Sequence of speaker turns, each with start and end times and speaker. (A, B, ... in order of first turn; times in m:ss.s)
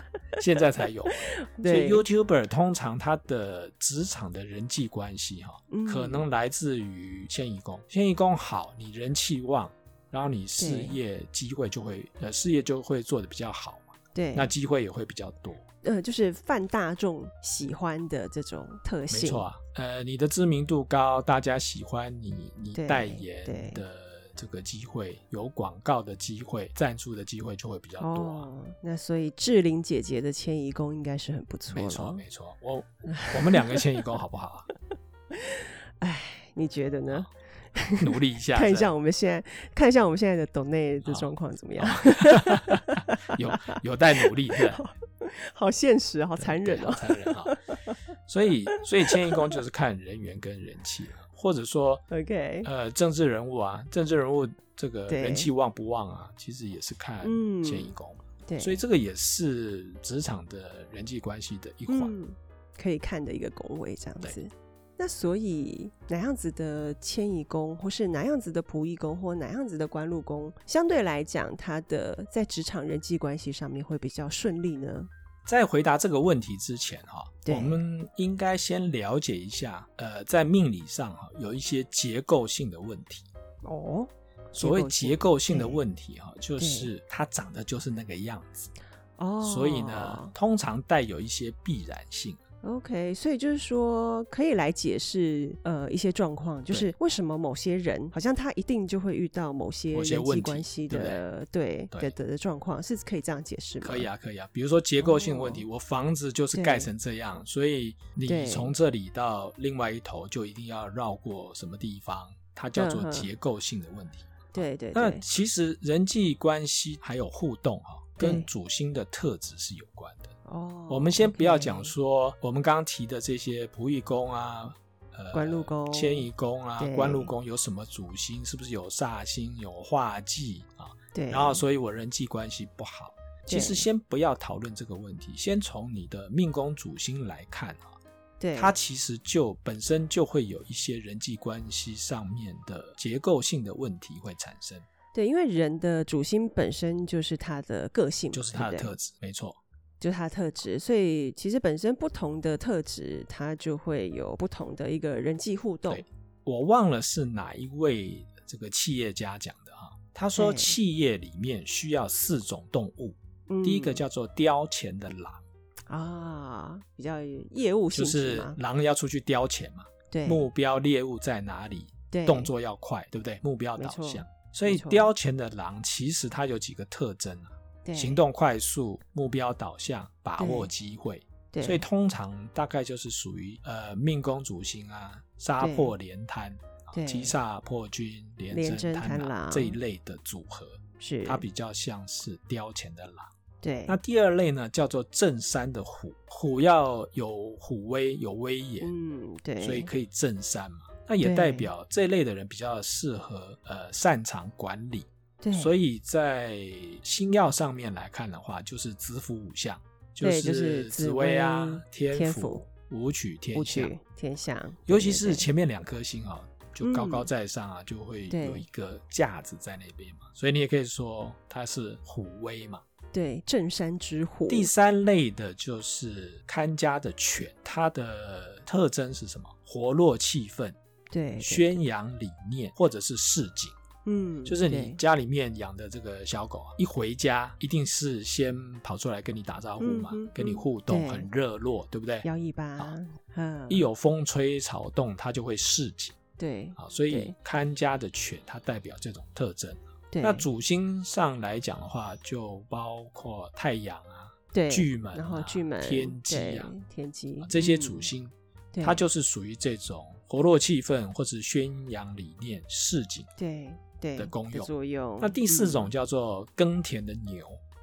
0:00.4-0:15.6 A
0:01.1-0:02.0 B
0:05.7-0:06.2 B
0:10.6-0:11.0 B
0:14.1-0:14.5 B
0:15.8-0:19.5 B
0:19.1-0:28.5 A
0:22.7-0:23.8 B
0:28.0-0:32.2 B
0:31.7-0:34.7 A
0:33.1-0:33.9 B
0:35.3-0:48.0 B
0:38.0-0:38.9 A
0:41.8-0:44.8 A
0:46.4-0:47.6 A
0:48.3-0:52.0 A
0:48.7-0:49.6 B
0:52.1-0:52.7 B
0:52.6-1:02.1 A
0:55.1-0:55.5 B
0:57.2-0:57.9 B
0:58.5-0:58.8 B
1:01.9-1:15.1 B
1:15.5-1:23.3 A
1:17.4-1:17.8 B
1:23.6-1:25.8 B
1:24.6-1:28.7 A
1:26.6-1:26.9 B
1:29.2-1:30.3 B
1:29.4-1:32.4 A
1:32.6-1:44.1 B
1:39.9-1:41.2 A
1:43.8-2:00.3 A
1:45.0-1:45.6 B
1:46.5-1:46.9 B
1:48.3-1:48.8 B
1:52.7-1:53.3 B
1:54.5-1:55.2 B
1:58.2-1:58.5 B
2:00.4-2:01.9 B
2:00.9-2:18.0 A
2:05.3-2:06.3 B
2:06.8-2:07.3 B
2:11.1-2:11.6 B
2:13.5-2:13.9 B
2:18.4-2:18.8 B
2:18.6-2:24.9 A
2:25.1-2:28.9 B
2:28.3-2:29.6 A
2:30.0-2:36.0 B
2:35.9-2:45.4 A
2:40.4-2:40.8 B
2:43.5-2:44.0 B
2:45.9-2:48.6 B
2:47.9-3:13.3 A
2:50.1-2:50.5 B
2:52.1-2:52.5 B
2:53.8-2:55.1 B
2:57.8-2:58.2 B
3:00.4-3:00.7 B
3:01.5-3:01.8 B
3:05.6-3:05.9 B
3:06.9-3:07.4 B
3:08.5-3:09.8 B
3:11.0-3:11.4 B
3:13.6-3:14.0 B
3:13.9-3:18.9 A
3:18.8-3:19.9 B
3:19.6-3:33.9 A
3:21.2-3:21.7 B
3:25.4-3:25.7 B
3:30.2-3:32.6 B
3:33.5-3:35.5 B
3:34.9-3:42.8 A
3:36.8-3:37.3 B
3:38.3-3:38.6 B
3:43.1-3:44.7 B
3:44.5-3:50.8 A
3:51.1-3:51.8 B
3:51.4-3:53.8 A
3:54.0-3:55.0 B
3:54.4-4:02.3 A
3:59.8-4:01.3 B
4:02.2-4:03.8 B
4:03.7-4:06.2 A
4:06.4-4:07.4 B
4:06.8-4:16.7 A
4:10.1-4:10.5 B
4:14.5-4:18.1 B
4:17.4-4:23.3 A
4:18.7-4:19.0 B
4:23.4-4:25.9 B
4:24.2-4:27.6 A